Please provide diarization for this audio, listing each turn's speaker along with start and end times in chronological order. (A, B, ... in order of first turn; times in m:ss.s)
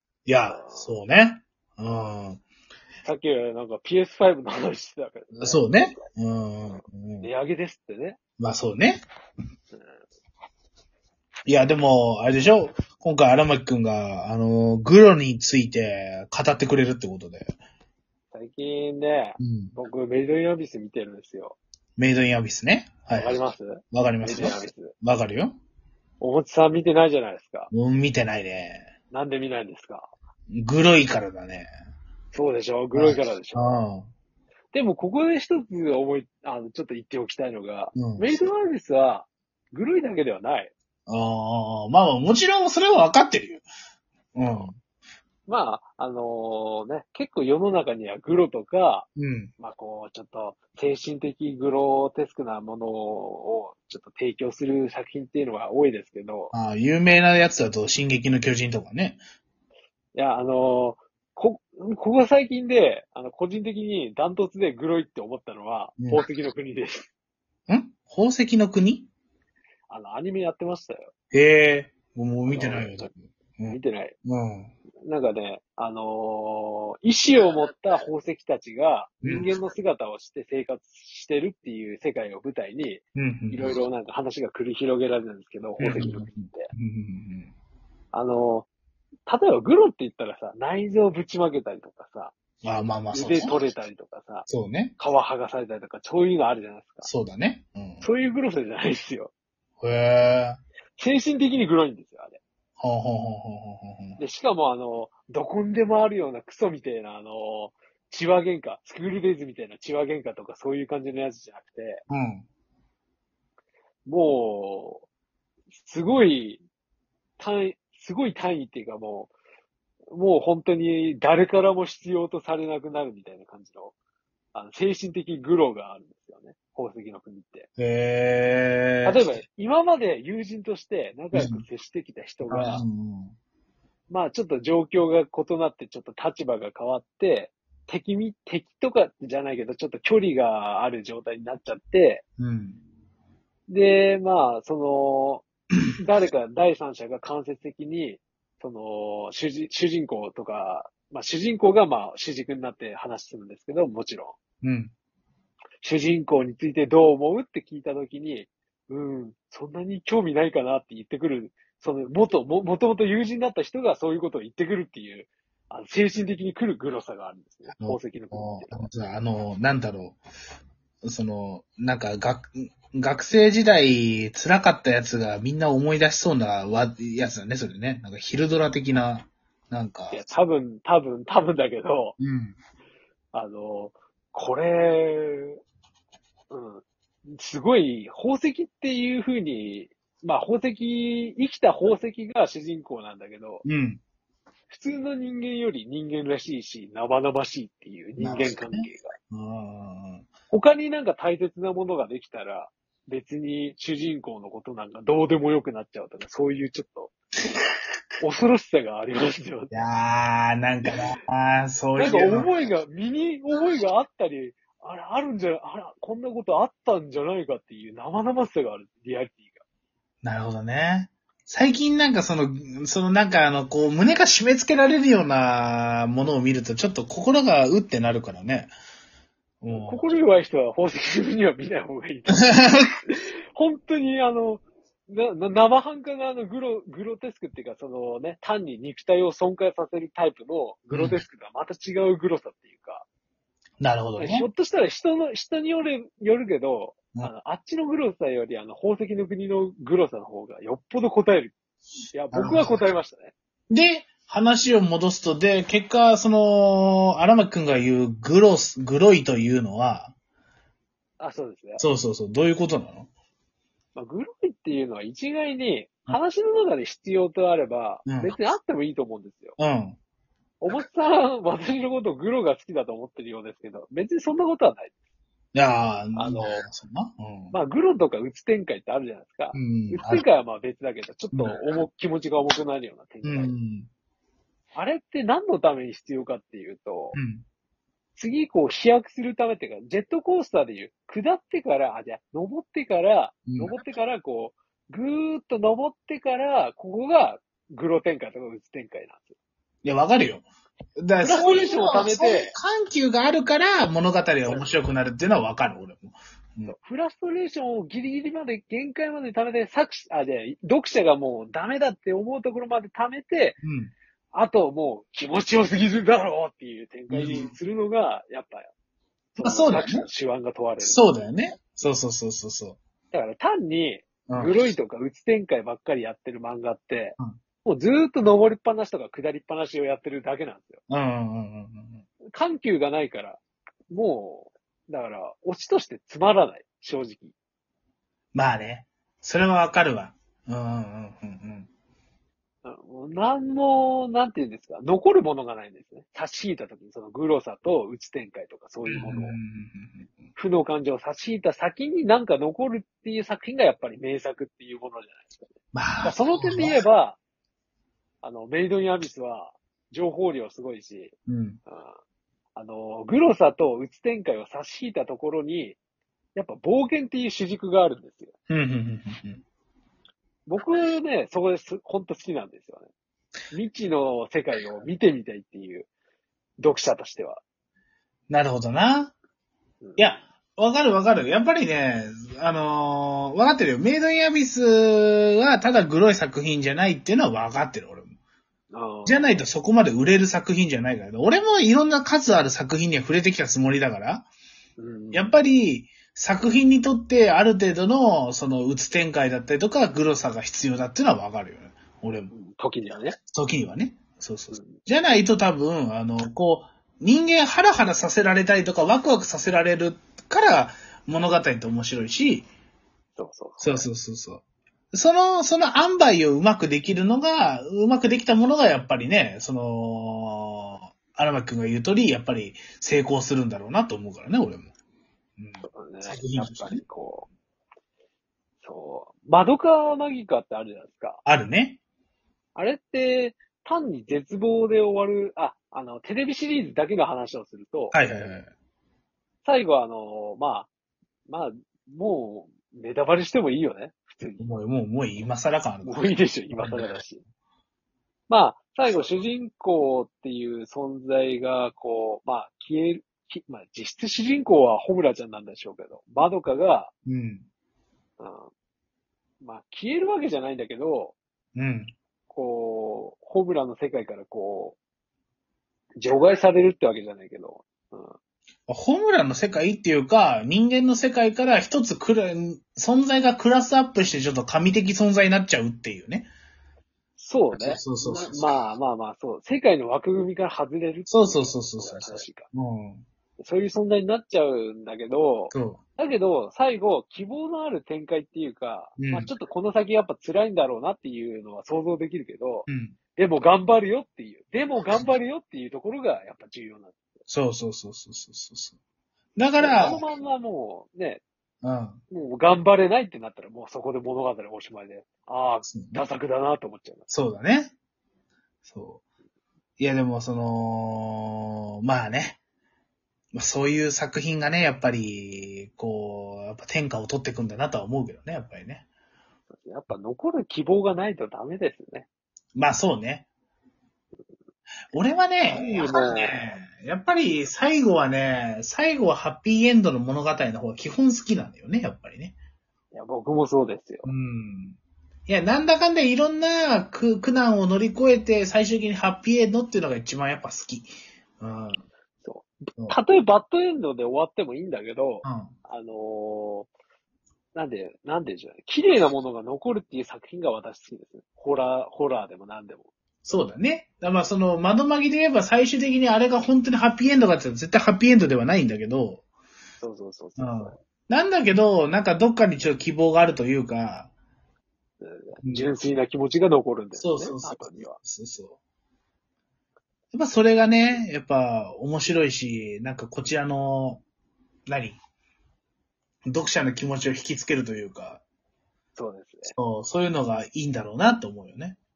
0:00.2-0:02.4 A
0:00.5-0:00.9 B
0:03.0-0:06.0 B
0:05.4-0:07.3 A
0:06.7-0:08.2 B
0:08.4-0:09.0 A
0:11.5-0:17.5 A
0:18.3-0:21.6 B
0:19.4-0:19.8 A
0:22.0-0:23.4 A
0:23.1-0:24.9 B
0:23.9-0:25.6 A
0:26.2-0:27.7 B
0:27.7-0:28.9 A
0:29.1-0:30.1 B
0:30.5-0:31.7 A
0:32.3-0:33.8 B
0:32.9-0:34.1 A
0:34.7-0:40.7 B
0:37.9-0:38.3 A
0:41.1-0:43.6 A
0:44.3-0:44.8 A
0:45.5-0:56.5 B
0:49.2-0:49.5 A
0:56.5-0:59.2 A
1:00.1-1:07.1 B
1:07.7-1:09.1 A
1:09.9-1:11.1 B
1:11.3-1:14.7 A
1:12.5-1:13.1 B
1:13.7-1:14.2 B
1:15.0-1:26.7 B
1:19.2-1:19.5 A
1:23.2-1:23.8 A
1:25.8-1:27.5 A
1:28.1-1:28.7 B
1:29.3-1:32.3 B
1:32.6-1:33.6 A
1:33.1-1:37.1 B
1:34.5-1:34.9 A
1:37.0-1:38.0 A
1:38.0-1:39.3 B
1:39.8-1:40.6 A
1:41.0-1:42.4 B
1:42.8-1:44.2 A
1:44.2-1:52.0 B
1:52.1-1:52.4 A
1:54.0-1:55.0 B
1:55.7-1:56.6 B
1:57.4-1:59.3 B
2:00.1-2:03.9 B
2:04.5-2:07.7 B
2:07.8-2:09.4 A
2:09.0-2:12.8 B
2:11.3-2:11.6 A
2:12.5-2:13.3 A
2:14.1-2:22.2 B
2:22.4-2:22.8 A
2:23.7-2:25.4 B
2:26.0-2:34.4 B
2:34.6-2:34.9 A
2:35.8-2:48.9 B
2:47.7-2:50.2 A
2:51.0-3:00.3 A
3:00.1-3:02.2 B
3:02.2-3:02.6 A
3:03.3-3:05.6 B
3:06.5-3:13.6 B
3:13.6-3:14.0 A
3:14.7-3:19.1 B
3:18.2-3:20.3 A
3:20.5-3:27.1 B
3:28.2-3:29.8 B
3:29.7-3:32.5 A
3:32.0-3:39.6 B
3:40.2-3:48.7 A
3:49.6-3:50.0 A
3:49.7-4:03.0 B
3:52.4-3:52.9 A
4:00.9-4:01.2 A
4:03.8-4:04.5 A
4:04.2-4:11.5 B
4:12.1-4:13.3 B
4:12.3-4:12.9 A
4:13.7-4:20.1 A
4:21.2-4:21.8 B
4:21.8-4:23.1 A
4:23.9-4:29.6 B
4:28.0-4:28.4 A
4:29.6-4:30.0 A
4:30.6-4:34.9 B
4:35.5-4:37.6 A
4:36.2-4:36.6 B
4:37.5-4:43.5 B
4:39.5-4:40.2 A
4:41.3-4:41.6 A
4:43.2-4:43.9 A
4:44.7-4:47.2 B
4:47.1-4:47.4 A
4:48.2-4:59.3 B
4:53.5-4:53.7 A
4:59.8-5:00.5 A
5:01.0-5:06.7 A
5:01.2-5:02.5 B
5:04.4-5:04.8 B
5:06.6-5:13.6 B
5:13.6-5:13.9 A
5:14.3-5:18.7 B
5:17.1-5:17.5 A
5:19.3-5:21.0 B
5:19.4-5:20.0 A
5:20.8-5:22.8 A
5:23.1-5:30.8 B
5:24.3-5:24.6 A
5:30.9-5:32.0 A
5:32.3-5:37.3 B
5:38.3-5:41.7 A
5:42.6-5:49.4 B
5:48.9-5:50.1 A
5:50.4-5:57.2 B
5:55.7-5:56.8 A
5:58.2-6:01.2 B
6:01.3-6:01.6 A
6:01.7-6:02.0 B
6:02.6-6:05.8 B
6:06.3-6:08.3 B
6:08.5-6:09.4 A
6:10.5-6:12.9 B
6:13.5-6:15.9 B
6:16.6-6:17.4 B
6:18.3-6:19.1 A
6:19.8-6:20.1 B
6:20.0-6:28.1 A
6:28.7-6:29.4 B
6:29.0-6:34.3 A
6:34.8-6:35.3 B
6:35.1-6:42.3 A
6:42.3-6:43.2 B
6:43.3-6:52.5 A
6:44.5-6:44.8 B
6:53.2-6:53.9 B
6:53.6-7:04.7 A
7:05.4-7:06.8 A
7:05.6-7:07.3 B
7:08.6-7:11.2 B
7:11.2-7:11.8 A
7:12.5-7:18.0 B
7:17.9-7:18.5 A
7:19.4-7:20.7 B
7:21.3-7:24.5 B
7:24.4-7:27.0 A
7:25.8-7:27.2 B
7:28.3-7:36.9 B
7:37.0-7:37.4 A
7:38.2-7:38.5 B
7:39.4-7:41.2 B
7:41.6-7:41.9 A
7:42.3-7:44.8 B
7:46.0-7:48.1 B
7:48.7-7:56.3 A
7:57.2-8:02.5 B
7:57.5-7:58.8 A
8:01.1-8:03.0 A
8:03.4-8:17.0 B
8:05.5-8:05.8 A
8:09.0-8:09.3 A
8:12.7-8:13.0 A
8:17.3-8:18.8 A
8:19.4-8:20.0 A
8:19.6-8:21.2 B
8:21.6-8:22.0 A
8:22.1-8:27.1 B
8:25.7-8:26.0 A
8:27.1-8:27.7 A
8:28.6-8:29.0 A
8:29.8-8:32.4 A
8:33.3-8:38.8 A
8:39.5-8:42.1 B
8:42.5-8:43.3 A
8:44.9-8:52.4 A
8:45.5-8:46.6 B
8:52.9-8:54.1 B
8:54.0-9:01.8 A
9:02.2-9:06.7 B
9:05.2-9:05.5 A
9:07.5-9:12.9 B
9:13.2-9:19.2 A
9:19.8-9:20.8 B
9:20.4-9:24.1 A
9:25.0-9:28.0 B
9:27.0-9:28.6 A
9:30.1-9:34.0 A
9:34.7-9:35.0 A
9:36.3-9:38.2 A
9:39.0-9:39.5 B
9:39.4-9:41.8 A